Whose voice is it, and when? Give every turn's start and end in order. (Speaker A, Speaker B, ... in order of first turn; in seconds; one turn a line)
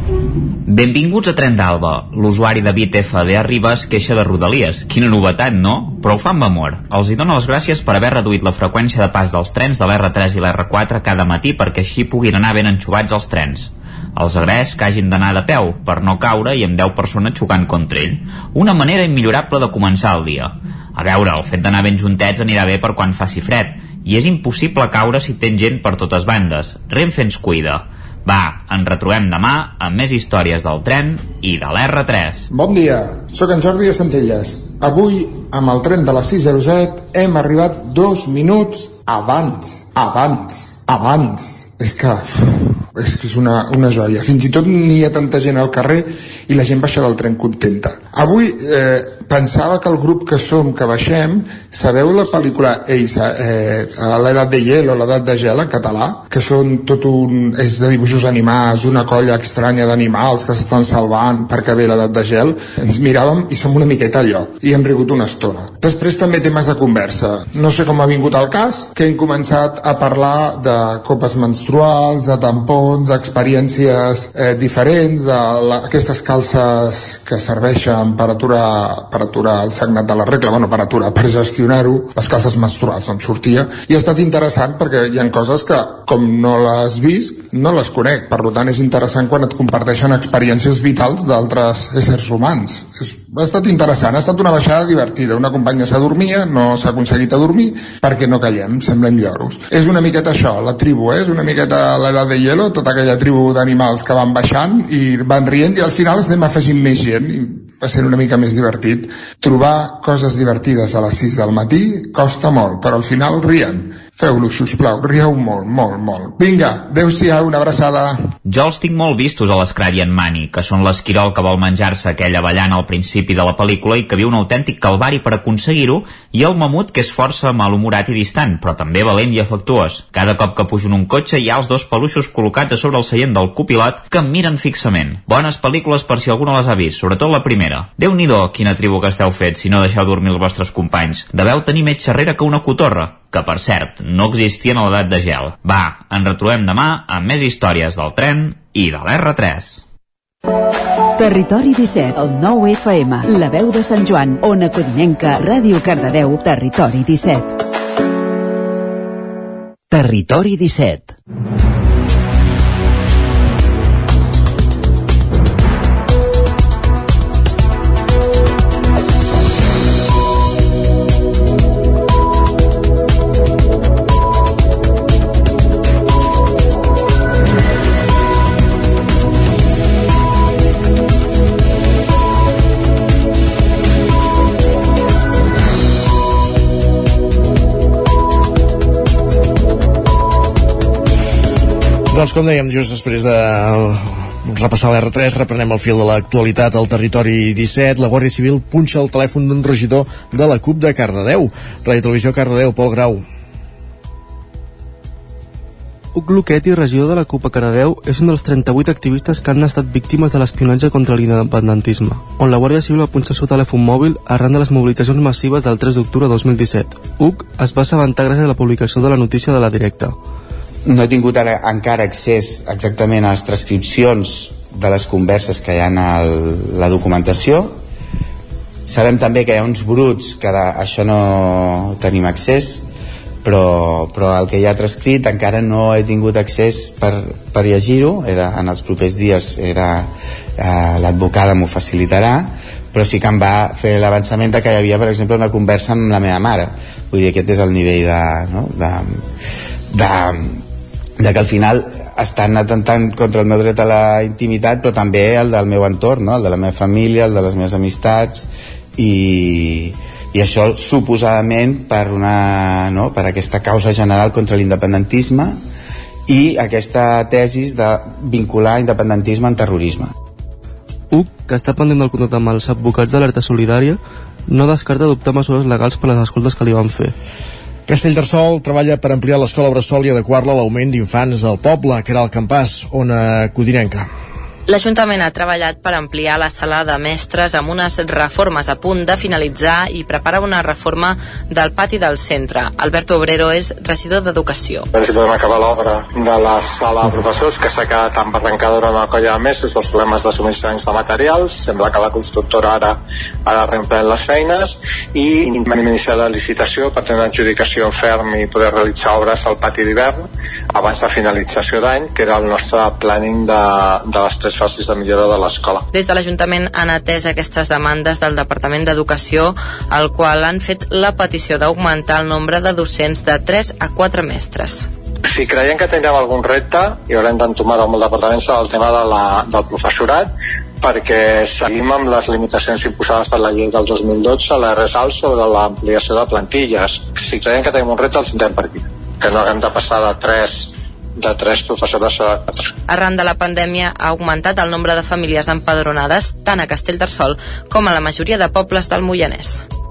Speaker A: 0.7-32.5
Speaker B: 32.5-118.3
Speaker A: 118.5-149.8
Speaker C: 151.2-157.6
Speaker C: 159.9-161.2
Speaker D: 192.1-203.2
Speaker E: 206.2-220.2
Speaker F: 220.9-227.8
Speaker F: 228.9-232.9
Speaker F: 233.4-240.1
Speaker F: 240.6-249.2
Speaker F: 249.9-250.6
Speaker F: 251.2-265.6
Speaker F: 266.3-270.1
Speaker E: 271.1-277.1
Speaker D: 277.9-284.1
Speaker G: 284.7-294.9
Speaker H: 294.9-315.8
Speaker G: 315.9-324.9
Speaker H: 325.2-342.6
Speaker G: 342.9-349.6